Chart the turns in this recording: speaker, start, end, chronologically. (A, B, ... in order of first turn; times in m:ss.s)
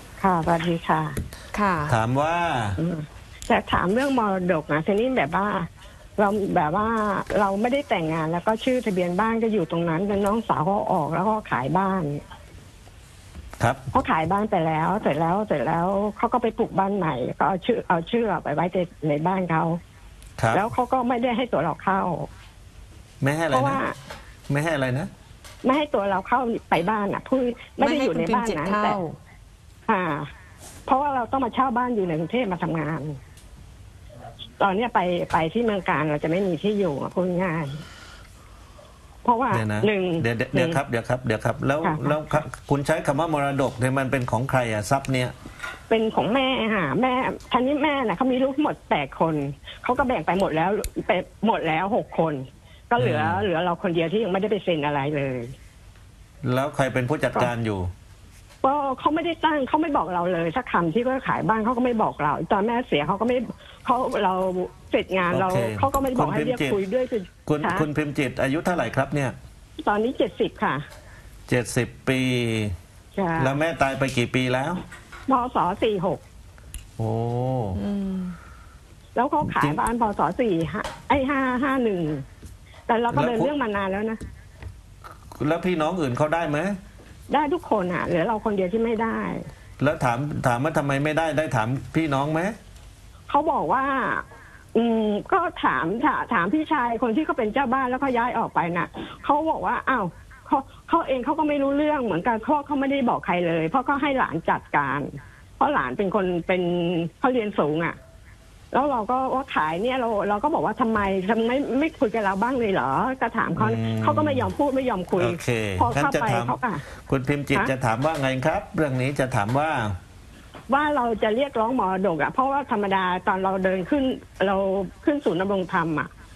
0:00.2-0:01.2 A
0:01.5-0:02.0 B
0:01.9-0:02.8 C
0:02.8-0:12.2 A
0:13.9-0:19.8 A
0:20.4-0:20.6 C
0:20.5-0:22.3 A
0:23.2-0:23.8 C
0:23.5-0:23.9 A
0:24.5-0:25.1 C
0:25.6-0:29.0 A
0:27.8-0:29.2 B
0:29.9-0:30.3 A
0:30.9-0:33.2 A
0:34.6-0:37.8 A
0:39.2-0:40.8 A
0:39.5-0:45.3 C
0:41.8-0:42.2 A
0:45.9-0:55.5 A
0:53.0-0:53.4 C
0:56.4-0:57.9 C
0:58.6-1:07.9 A
1:05.3-1:06.8 C
1:07.4-1:09.3 C
1:09.8-1:10.8 A
1:11.5-1:12.7 C
1:13.2-1:13.6 A
1:13.4-1:14.8 C
1:15.3-1:16.2 A
1:17.0-1:17.8 C
1:17.7-1:18.4 B
1:19.2-1:22.2 A
1:19.4-1:19.8 C
1:22.9-1:24.2 A
1:23.1-1:23.5 C
1:25.4-1:26.8 C
1:27.3-1:29.4 A
1:29.8-1:32.5 C
1:33.3-1:48.0 A
1:48.7-1:56.8 A
1:53.6-1:54.5 C
1:55.2-2:00.0 C
2:00.7-2:06.1 A